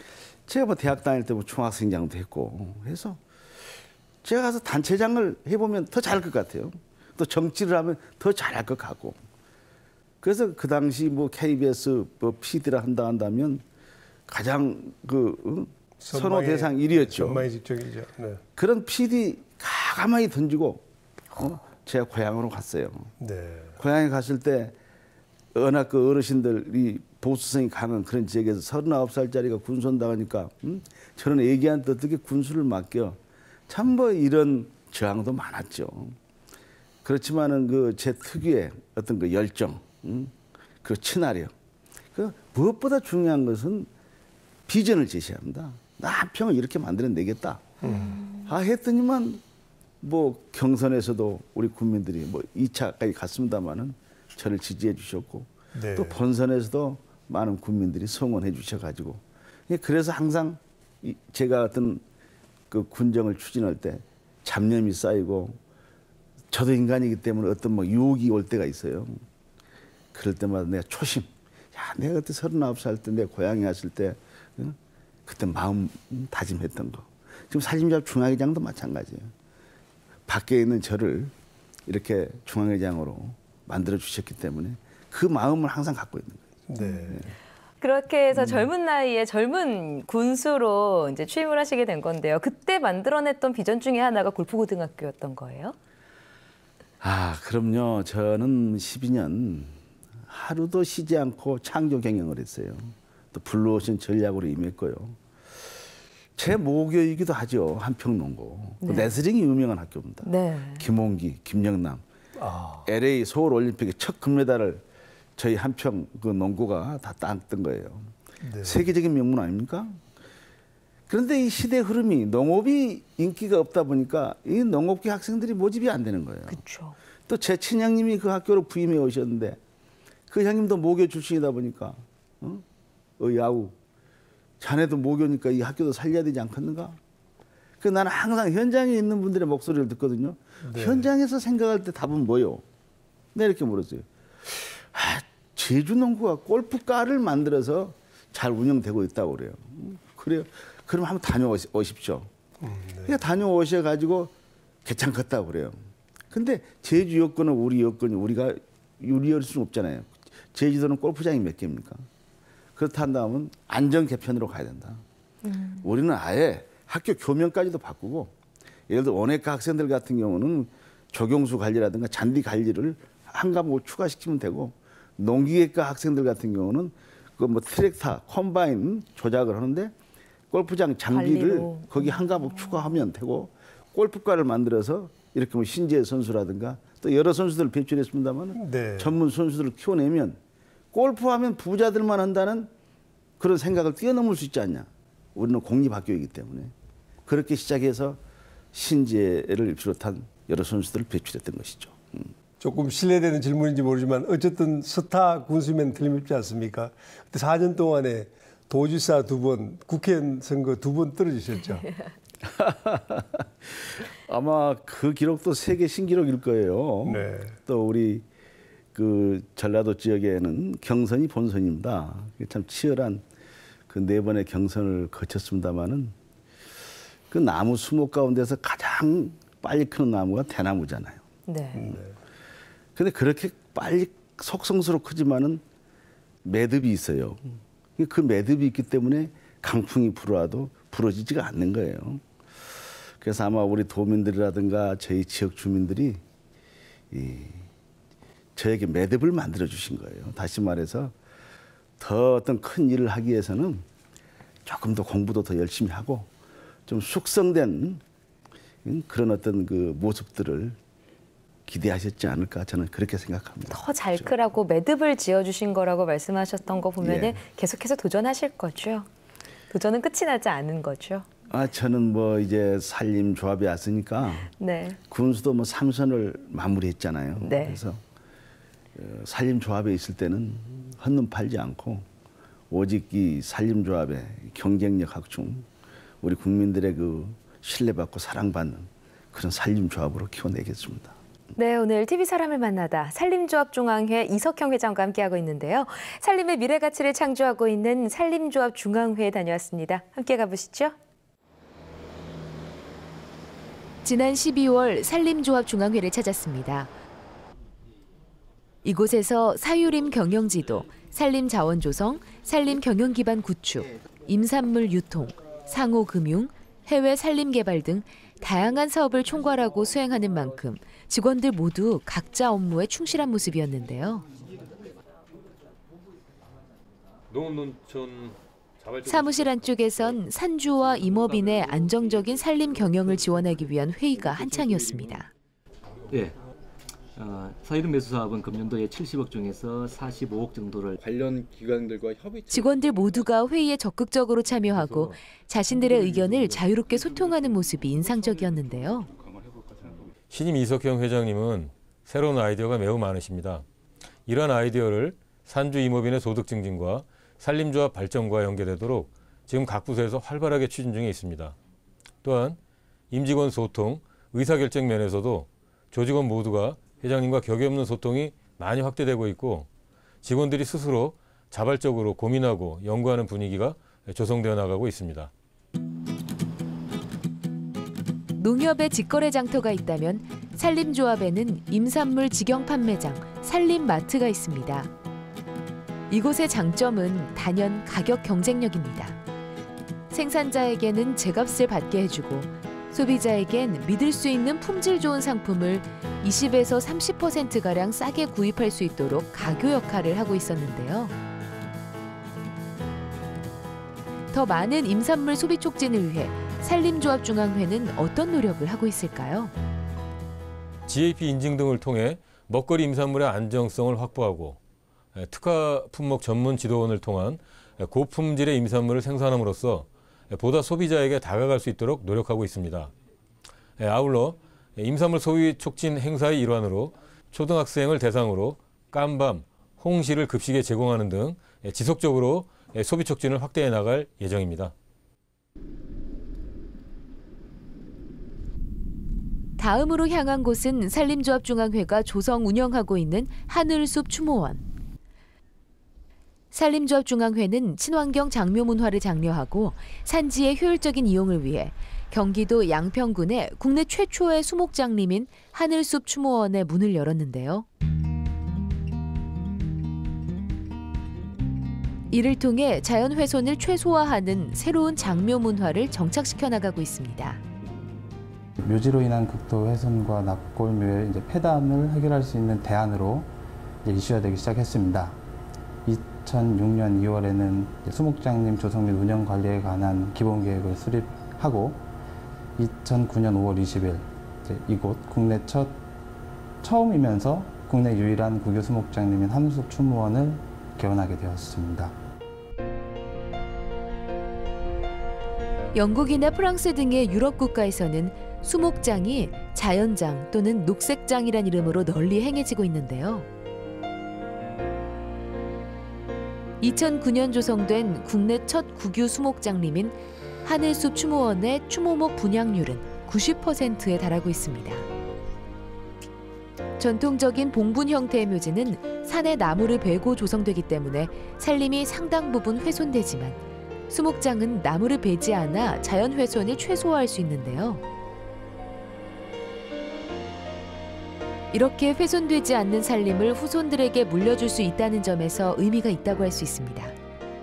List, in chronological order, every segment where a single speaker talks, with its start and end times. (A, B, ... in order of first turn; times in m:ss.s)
0:00.5-0:03.2 A
0:04.2-0:09.2 A
0:10.2-0:13.6 A
0:14.3-0:17.4 A
0:16.0-0:18.4 B
0:18.6-0:23.1 A
0:23.2-0:23.8 B
0:23.8-0:24.8 A
0:25.5-0:36.2 A
0:37.0-0:41.5 A
0:42.1-0:43.9 A
0:44.7-0:47.7 A
0:47.8-0:48.2 B
0:48.0-0:48.5 C
0:48.4-0:49.4 A
0:50.0-1:02.0 A
0:55.7-0:56.2 B
1:02.7-1:05.6 A
1:06.5-1:09.2 A
1:10.1-1:19.3 A
1:20.3-1:21.3 A
1:21.9-1:26.5 A
1:26.7-1:27.3 B
1:26.8-1:27.2 C
1:27.8-1:35.8 C
1:28.4-1:28.7 A
1:37.0-1:39.8 A
1:40.3-1:45.2 A
1:46.4-1:52.0 A
1:48.8-1:49.2 C
1:50.2-1:50.9 C
1:52.4-1:52.9 B
1:52.8-1:54.8 A
1:55.4-2:00.0 A
1:58.4-1:58.8 B
2:01.1-2:06.6 A
2:06.5-2:07.0 C
2:07.3-2:09.6 A
2:10.3-2:12.6 A
2:13.2-2:13.8 A
2:14.6-2:17.0 A
2:17.8-2:22.6 A
2:20.6-2:21.1 B
2:23.3-2:32.3 A
2:32.6-2:33.3 B
2:33.0-2:34.3 A
2:34.8-2:35.8 A
2:36.3-2:42.0 A
2:42.8-2:45.0 A
2:45.4-2:45.9 C
2:45.8-2:48.3 A
2:48.9-2:59.9 A
3:00.5-3:10.4 A
3:01.1-3:02.9 C
3:08.5-3:09.2 B
3:10.9-3:12.7 A
3:13.4-3:16.7 A
3:17.3-3:18.2 A
3:18.7-3:22.3 A
3:22.6-3:31.9 B
3:31.7-3:32.1 C
3:32.4-3:38.2 A
3:37.0-3:37.6 B
3:38.9-3:43.2 A
3:43.9-3:46.1 A
3:47.3-3:51.2 A
3:51.5-3:51.9 C
3:51.8-3:52.0 B
3:53.0-3:55.6 A
3:56.4-3:57.4 A
3:58.0-4:02.2 A
4:03.2-4:06.2 A
4:07.1-4:07.7 A
4:08.6-4:11.1 A
4:12.0-4:13.8 A
4:14.6-4:16.3 A
4:16.9-4:18.0 A
4:18.8-4:20.8 A
4:21.7-4:24.3 A
4:23.7-4:29.1 C
4:27.0-4:27.4 A
4:29.7-4:31.3 C
4:31.5-4:34.5 A
4:34.6-4:35.0 C
4:35.1-4:38.0 A
4:37.4-4:37.8 C
4:39.0-4:42.0 A
4:42.7-4:45.7 A
4:46.2-4:51.2 A
4:51.6-5:01.0 C
5:04.0-5:06.9 D
5:08.8-5:24.2 D
5:27.3-5:30.2 E
5:29.0-5:35.3 D
5:31.0-5:31.9 E
5:36.1-5:36.4 F
5:37.1-5:41.0 F
5:42.5-5:49.1 D
5:50.3-5:53.6 E
5:54.3-6:01.6 E
6:02.2-6:02.6 E
6:03.1-6:09.7 E
6:10.2-6:15.3 E
6:18.4-6:24.9 D
6:26.1-6:29.2 D
6:30.1-6:41.1 D
6:44.3-6:49.5 D
6:50.9-6:54.6 E
6:55.1-7:02.9 E
7:03.8-7:14.7 E
7:19.6-7:24.6 D
7:26.5-7:37.6 D
7:42.1-7:47.4 D
7:48.6-7:53.3 G
7:53.8-7:55.2 G
7:55.8-8:01.8 G
8:02.6-8:05.8 G
8:06.6-8:12.0 G
8:15.7-8:23.3 D
8:26.6-8:34.8 D
8:36.8-8:43.4 D
8:43.9-8:47.8 D
8:51.5-8:56.9 D